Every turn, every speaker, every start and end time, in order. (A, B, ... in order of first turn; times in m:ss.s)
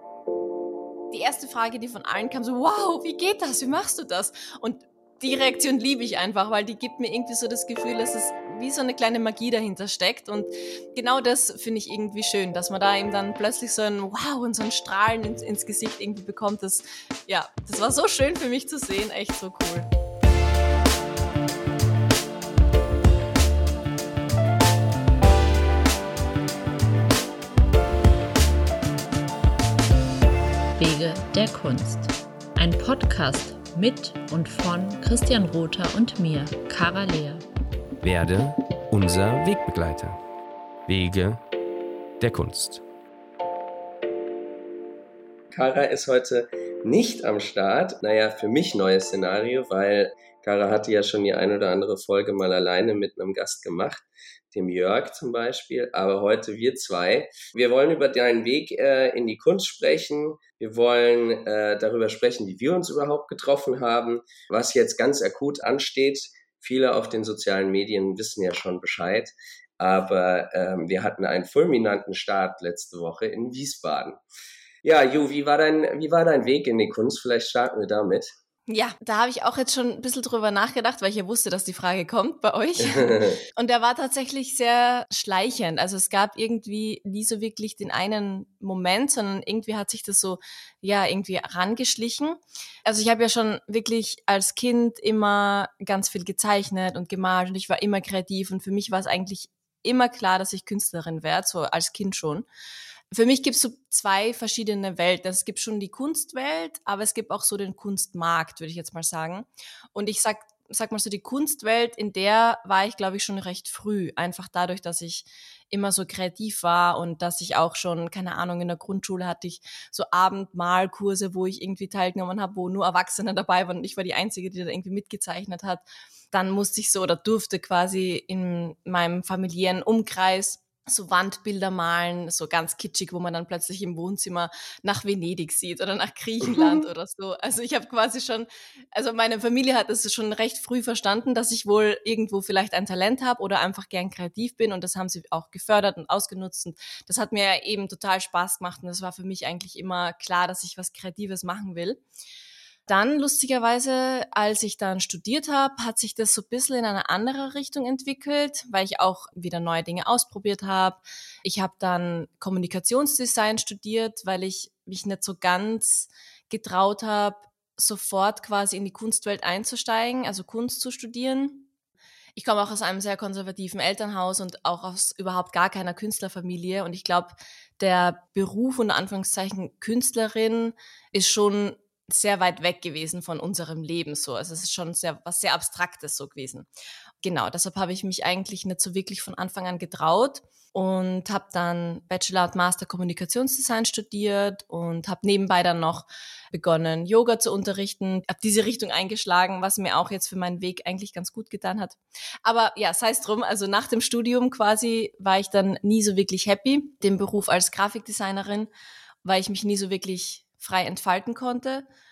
0:01.1-0:19.9 A
0:30.8-0:37.4 B
0:38.0-0:40.2 C
0:40.9-0:41.4 C
0:42.2-0:42.8 C
0:45.5-1:14.2 D
1:14.8-1:18.3 D
1:18.7-1:42.5 A
1:22.8-1:23.4 D
1:43.1-2:32.0 A
2:16.4-2:16.9 D
2:32.9-2:51.7 A
2:52.4-3:06.7 A
3:07.2-3:28.7 A
3:29.2-3:31.9 A